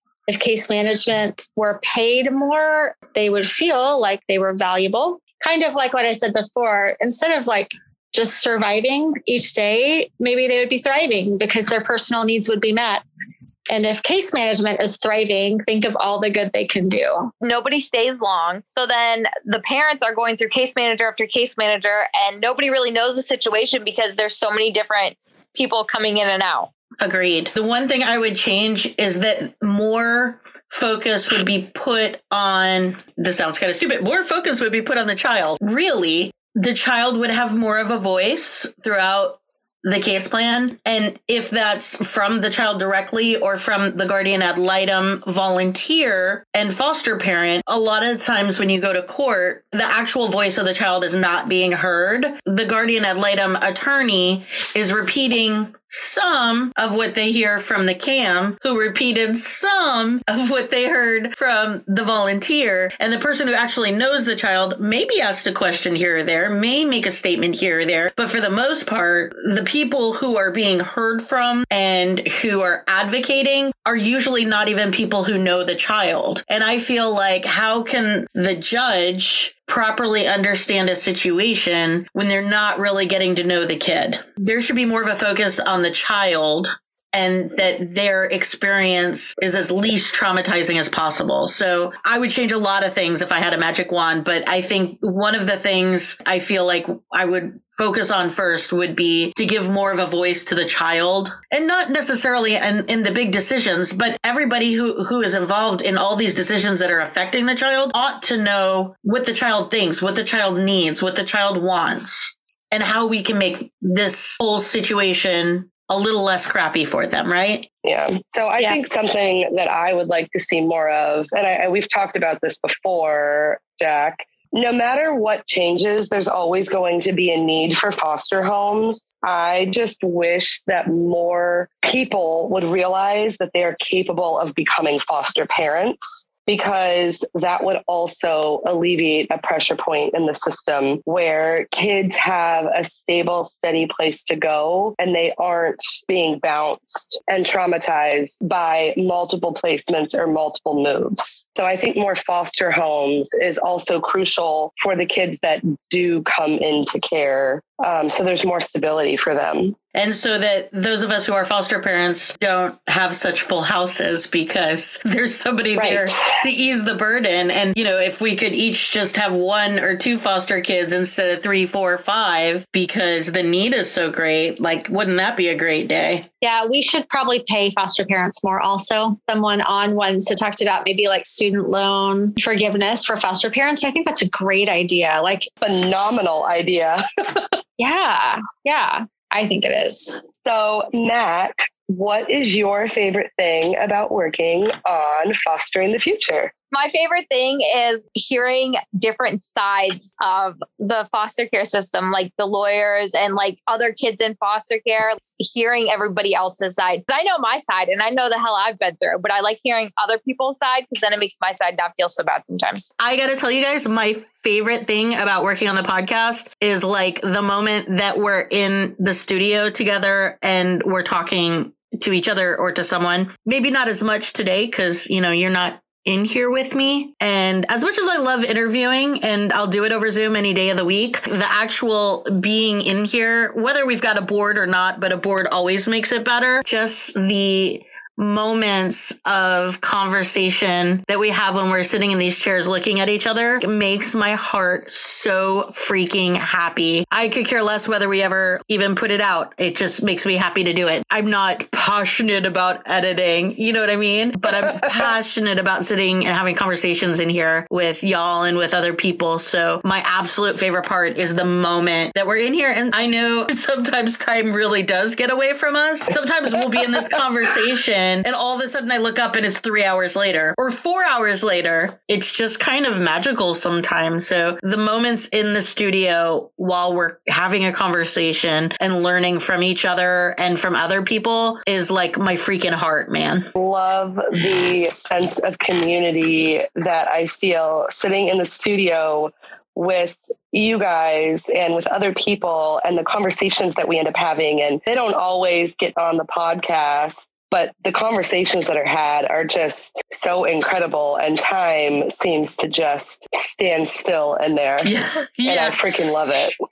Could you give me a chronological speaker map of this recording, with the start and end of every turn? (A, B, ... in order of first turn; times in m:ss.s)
0:00.3-0:13.0 A
0:13.7-0:17.3 A
0:17.4-0:26.7 B
0:27.0-1:57.7 C
1:57.8-2:39.8 D
2:39.9-2:56.3 C
2:45.7-2:46.3 D
2:56.4-3:05.5 A
3:05.6-3:07.0 D
3:07.8-3:10.2 A
3:10.4-3:16.5 D
3:16.7-3:32.9 B
3:33.0-4:43.5 C
4:43.6-5:04.9 D
5:04.8-5:06.1 C
5:05.5-5:06.5 D